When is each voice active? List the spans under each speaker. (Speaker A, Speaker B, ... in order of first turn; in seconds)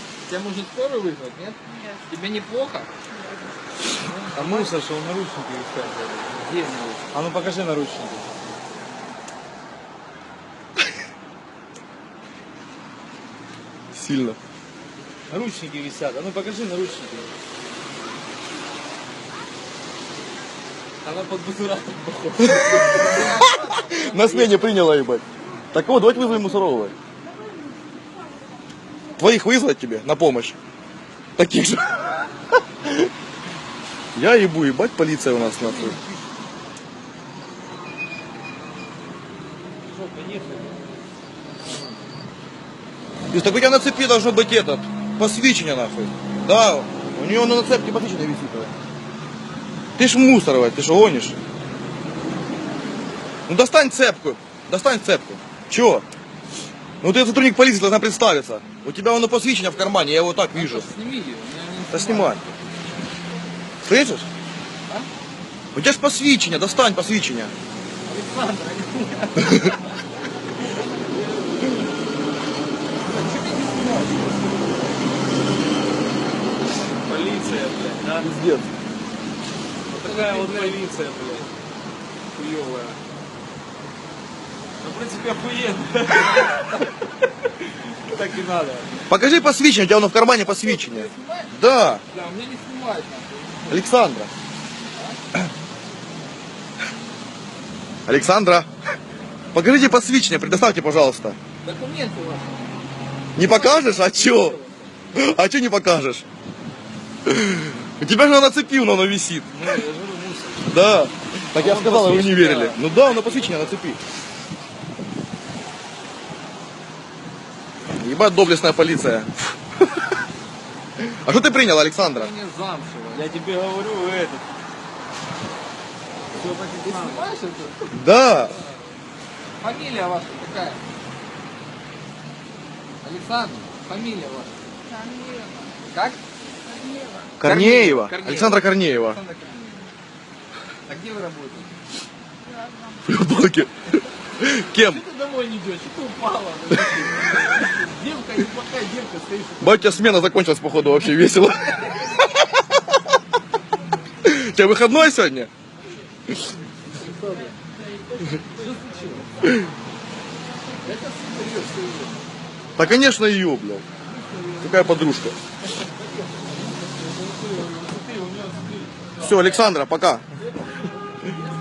Speaker A: 0.2-2.9, 3.9-4.7, 6.3-7.0, 22.5-24.7, 35.5-36.3, 60.5-63.0, 68.0-69.9, 73.0-74.8, 79.9-81.0, 86.2-86.8, 90.4-93.9, 94.9-95.2, 101.6-102.7, 103.4-104.9, 122.1-123.4, 126.8-127.9, 129.6-130.8, 133.0-134.6, 135.9-136.2, 137.4-139.9, 140.9-141.7, 144.7-150.1, 157.0-157.6, 158.3-159.5, 160.8-162.3, 164.1-165.0, 165.8-167.2
Speaker B: 1.7-2.0, 3.1-3.5, 27.3-27.8, 134.8-135.8, 136.6-137.3, 142.4-143.1
Speaker C: 4.3-6.3, 7.1-8.2, 15.3-17.3, 21.0-23.2, 39.8-40.9, 77.0-78.3, 79.9-81.5, 82.4-83.0, 84.8-86.7, 88.1-89.0, 109.5-110.8, 111.5-112.8, 123.1-124.4, 126.3-127.2, 167.2-169.0
Speaker D: 13.9-14.4, 23.8-26.9, 29.2-30.6, 31.4-32.3, 32.8-33.1, 34.1-36.0, 43.3-48.7, 50.0-51.4, 53.5-56.0, 57.0-60.9, 61.9-62.4, 63.8-64.2, 65.7-67.5, 78.2-78.7, 89.1-92.0, 93.7-94.3, 98.0-98.7, 99.5-101.4, 103.3-104.6, 105.1-106.2, 107.2-109.8, 110.7-114.0, 117.9-119.3, 121.0-122.3, 127.9-128.6, 137.4-139.2, 143.1-145.0, 149.6-152.4, 154.2-155.5, 162.8-163.8, 164.6-165.3, 169.2-170.2